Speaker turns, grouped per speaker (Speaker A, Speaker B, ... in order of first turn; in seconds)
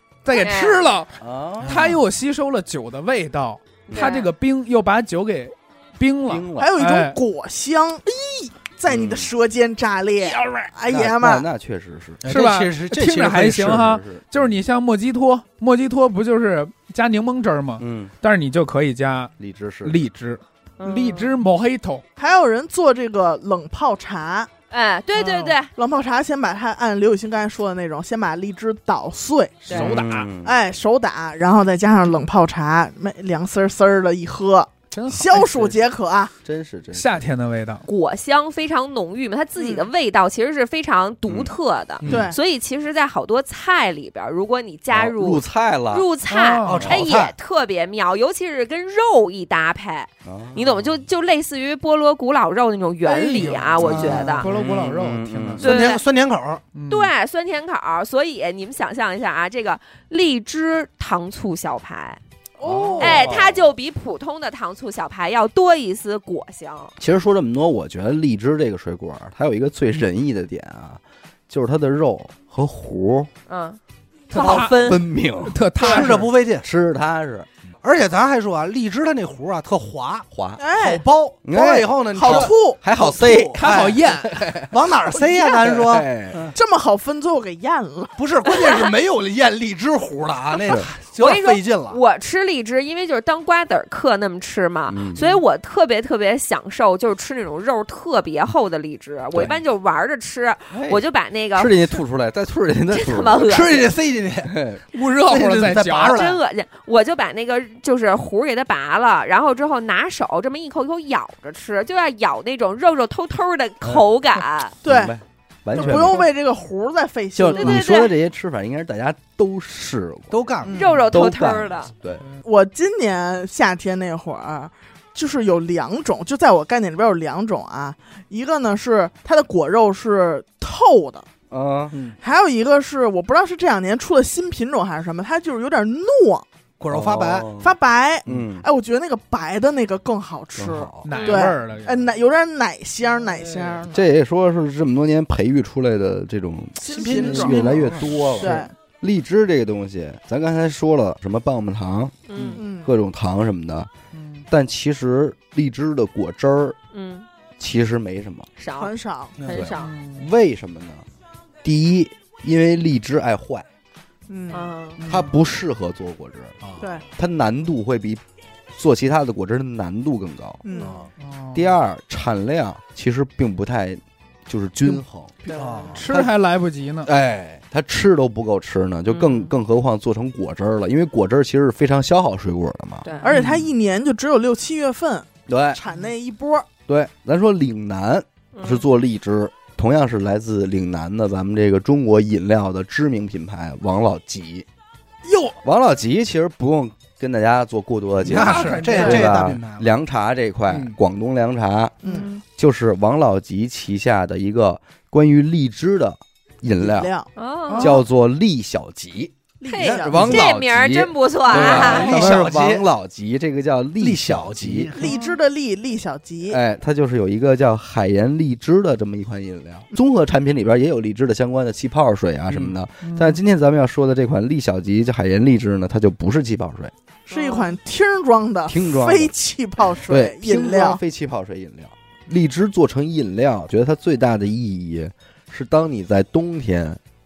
Speaker A: 0.2-7.2, 10.2-10.7, 12.3-19.3, 19.8-22.0, 34.9-35.5, 36.9-37.9, 46.3-46.9, 53.1-55.8, 56.7-57.1, 74.3-76.3, 83.5-84.4, 104.9-106.3, 115.8-116.3, 141.0-142.1, 154.1-154.5, 159.7-160.3, 165.0-165.4, 171.2-171.7, 175.9-177.1, 183.3-183.7, 198.2-199.3, 207.7-208.0, 215.0-215.4, 223.0-223.4
Speaker B: 0.3-0.9, 3.9-4.3, 20.8-21.3, 24.7-25.7, 29.7-30.0, 37.9-54.5, 55.6-56.0, 56.9-62.2, 63.0-66.9, 73.5-73.8, 74.3-75.0, 91.2-102.0, 102.9-103.9, 106.1-114.8, 117.5-118.1, 120.7-121.9, 141.1-141.5, 152.3-152.6, 156.9-157.3, 158.6-158.9, 159.4-159.9, 164.5-165.0, 175.5-175.9, 179.1-179.5, 183.0-183.3, 188.6-188.8, 202.0-202.4, 207.4-208.0, 209.7-212.2, 227.3-227.7
Speaker C: 1.2-1.8, 6.3-6.7, 8.9-9.3, 10.9-12.2, 13.7-14.6, 17.8-18.1, 19.4-20.0, 29.7-30.6, 35.4-35.8, 36.4-37.2, 41.3-41.5, 44.9-46.1, 50.2-51.0, 53.8-55.6, 62.6-63.7, 67.0-73.3, 74.5-75.6, 76.6-77.5, 80.3-80.6, 81.5-84.7, 85.6-86.5, 94.9-95.3, 100.7-101.0, 101.5-103.5, 104.5-104.8, 114.8-116.2, 117.3-120.4, 121.1-122.2, 131.5-131.9, 136.9-137.8, 138.3-138.7, 140.6-141.1, 143.9-153.9, 154.5-156.8, 157.6-158.5, 159.5-161.1, 161.6-163.7, 165.1-166.6, 167.2-168.2, 168.8-170.6, 171.5-175.3, 177.1-183.1, 185.5-185.8, 186.9-194.7, 195.6-202.0, 202.6-207.1, 207.8-214.9, 216.5-226.9, 228.7-229.3, 230.1-237.0
Speaker D: 1.6-2.0, 12.2-13.8, 29.8-30.3, 42.0-42.3, 46.6-47.3, 53.8-54.3, 55.6-56.6, 74.3-74.7, 75.8-76.7, 77.8-84.0, 84.7-86.5, 88.2-92.0, 103.4-104.6, 105.2-106.4, 120.3-120.8, 131.9-132.2, 136.8-137.6, 146.9-148.5, 159.4-159.7, 166.6-166.9, 170.8-171.1, 175.5-176.0, 198.2-199.9, 200.7-201.0, 211.6-212.9, 214.0-215.1
Speaker E: 6.6-11.4, 22.2-24.5, 25.7-36.3, 39.6-39.9, 42.0-42.4, 62.6-63.4, 80.6-81.0, 82.1-82.8, 86.5-88.2, 114.8-115.1, 115.7-117.9, 120.6-121.0, 122.4-131.3, 132.2-136.5, 137.6-144.1, 146.8-148.7, 152.6-152.9, 158.8-159.4, 164.3-164.8, 166.8-167.1, 170.6-171.1, 183.2-186.7, 195.2-195.6, 198.9-199.2, 202.0-202.3, 206.8-207.9, 209.6-210.5, 211.5-212.3, 214.9-216.6, 227.3-231.0